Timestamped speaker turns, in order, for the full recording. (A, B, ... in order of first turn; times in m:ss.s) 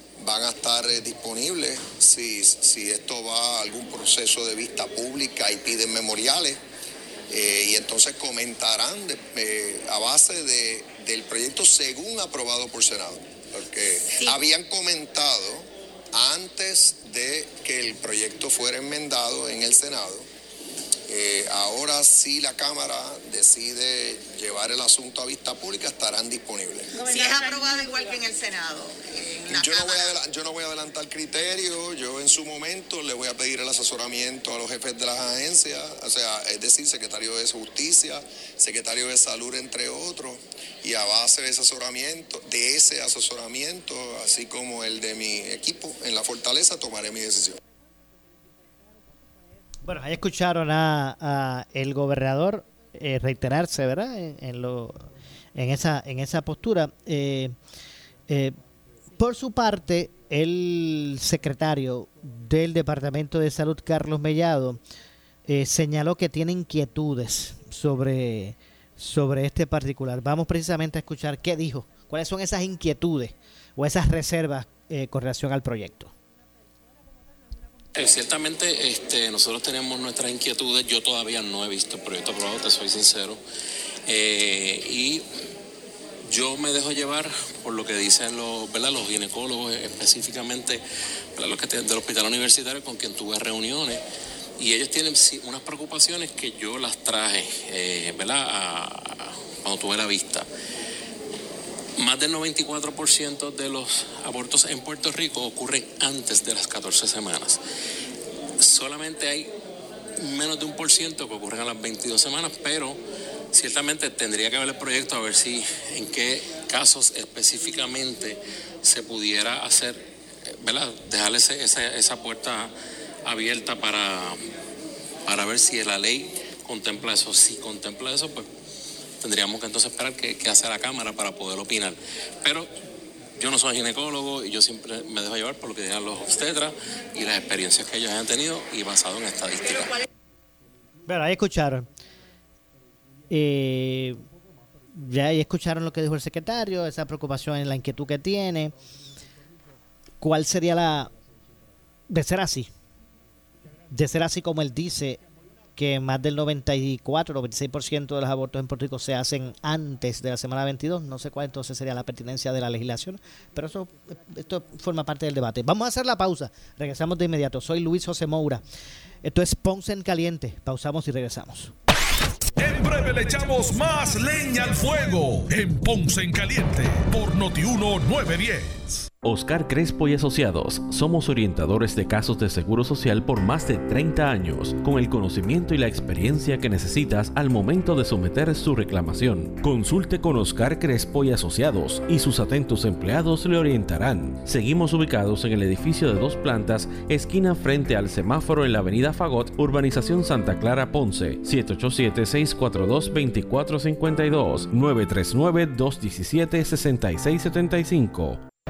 0:00.2-0:06.6 A
0:07.3-0:20.2 A
0:21.1-0:27.0 A
0:26.9-0:30.1 B
0:29.5-0:47.6 A
0:49.8-0:57.5 C
0:58.3-0:58.6 C
0:59.2-1:04.8 C
1:05.5-1:16.1 C
1:17.9-1:23.4 D
1:24.0-1:25.2 D
1:26.3-1:30.8 D
1:31.4-1:34.0 D
1:34.6-1:40.5 D
1:42.0-1:47.6 D
1:48.6-1:49.5 D
1:50.2-1:53.0 D
1:53.5-2:00.1 D
2:00.6-2:02.7 D
2:03.2-2:04.4 D
2:05.2-2:08.5 D
2:09.2-2:12.7 D
2:13.4-2:20.0 D
2:21.1-2:21.9 C
2:23.3-2:24.2 C
2:24.9-2:28.7 C
2:30.2-2:31.1 C
2:32.1-2:32.7 C
2:33.9-2:35.2 C
2:35.8-2:48.6 C
2:49.2-2:51.7 C
2:52.6-2:59.1 E
2:59.2-3:15.2 F
3:16.6-3:17.1 F
3:18.2-3:28.4 F